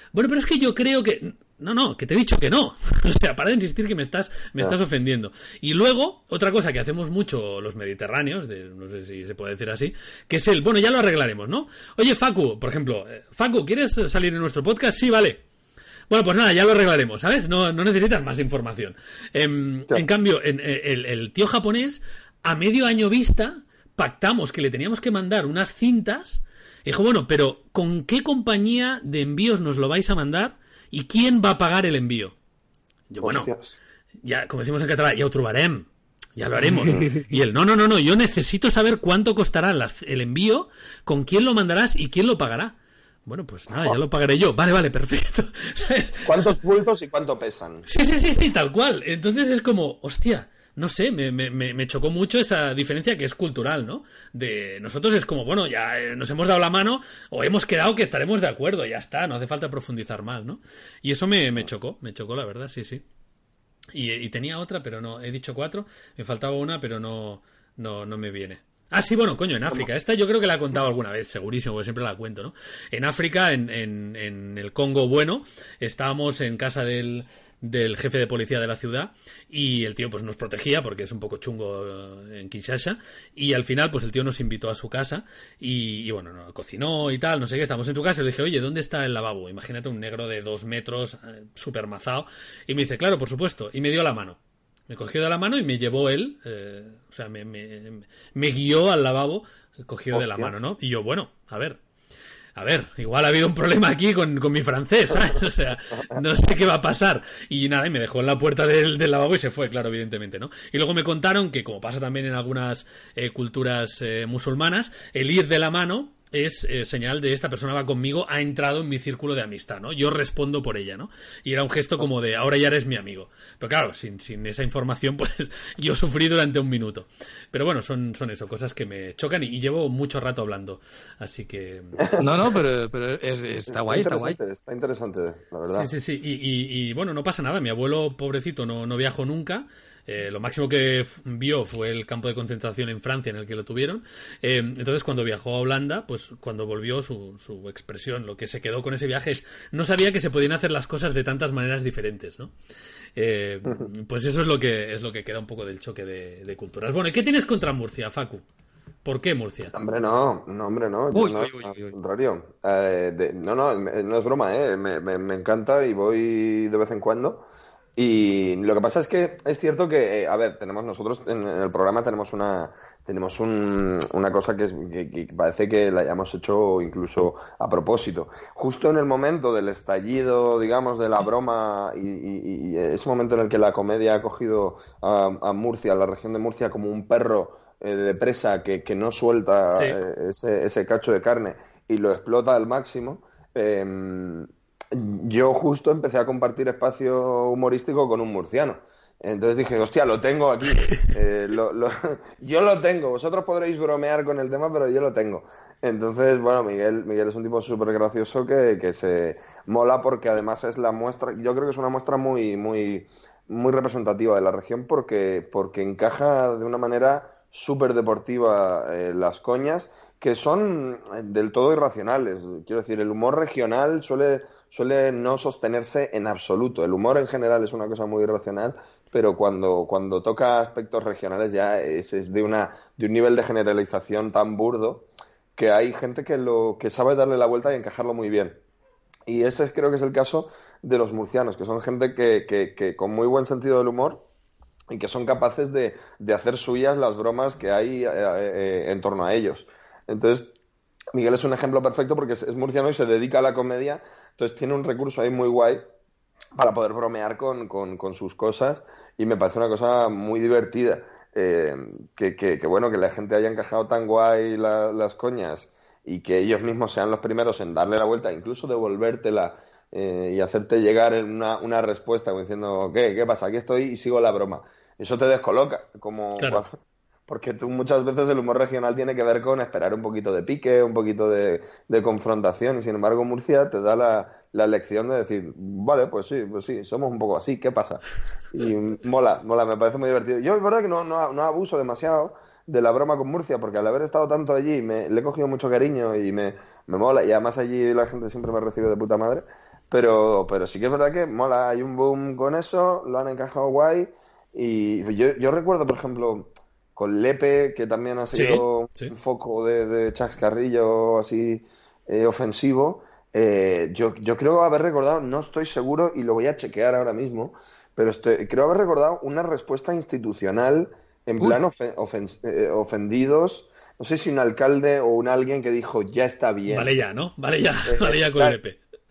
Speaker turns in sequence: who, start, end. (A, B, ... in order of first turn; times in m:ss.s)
0:00.1-0:15.4 A
0:16.1-0:32.4 A
0:33.1-0:33.5 A
0:33.2-0:33.8 B
0:34.2-0:46.6 A
0:46.2-0:47.9 B
0:47.9-1:03.0 A
1:03.9-1:34.4 A
1:34.9-1:41.8 A
1:40.1-1:40.5 B
1:42.6-2:12.1 A
2:12.2-2:14.4 C
2:13.7-2:15.9 B
2:15.7-2:32.5 A
2:33.2-2:38.4 A
2:39.0-2:39.7 A
2:39.7-2:47.4 B
2:41.1-2:42.0 C
2:48.0-3:58.6 B
3:59.3-4:04.2 B
4:04.9-4:10.5 B
4:11.1-4:15.8 B
4:16.6-4:36.8 B
4:36.4-4:36.6 A
4:37.3-5:26.9 B
5:08.3-5:09.1 A
5:26.7-5:28.8 A
5:27.9-5:28.6 B